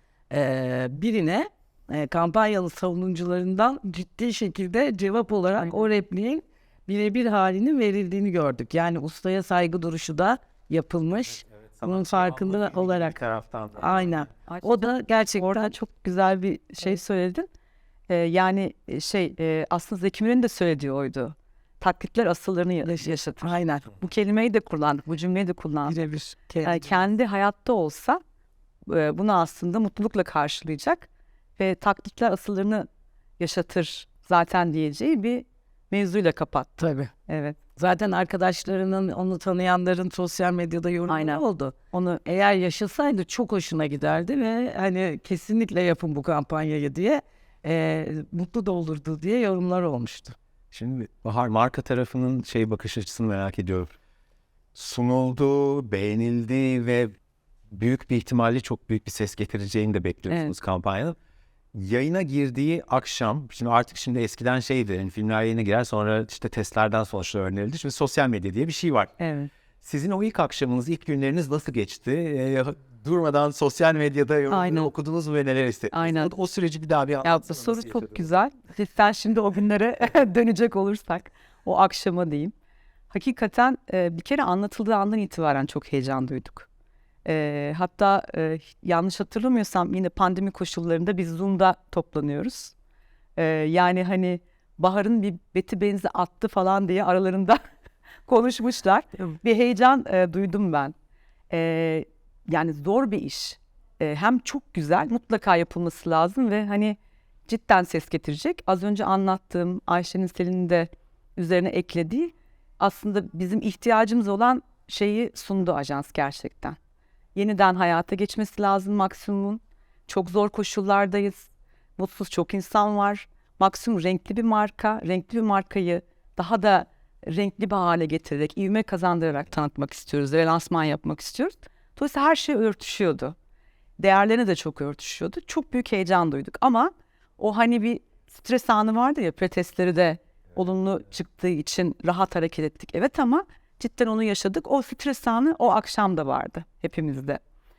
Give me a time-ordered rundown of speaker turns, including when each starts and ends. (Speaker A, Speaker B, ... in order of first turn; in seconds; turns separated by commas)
Speaker A: 0.3-13.2, Speaker B: 11.8-14.2, Speaker A: 13.8-15.7, Speaker C: 14.5-17.5, Speaker C: 18.1-25.9, Speaker A: 22.8-23.9, Speaker A: 25.9-26.9, Speaker C: 26.6-28.2, Speaker C: 28.9-32.9, Speaker C: 33.4-36.8, Speaker A: 36.8-37.1, Speaker C: 37.3-37.6, Speaker A: 37.8-41.7, Speaker C: 41.1-42.2, Speaker A: 42.2-50.3, Speaker B: 50.7-54.0, Speaker B: 54.7-57.1, Speaker B: 57.7-61.1, Speaker B: 61.7-69.1, Speaker C: 69.2-69.5, Speaker B: 69.8-78.3, Speaker C: 74.5-74.9, Speaker C: 75.9-76.3, Speaker C: 77.2-82.5, Speaker C: 83.1-86.7, Speaker C: 87.2-92.7, Speaker C: 93.4-97.6, Speaker C: 98.3-100.9, Speaker C: 101.5-116.8, Speaker C: 117.3-133.3, Speaker C: 134.0-147.4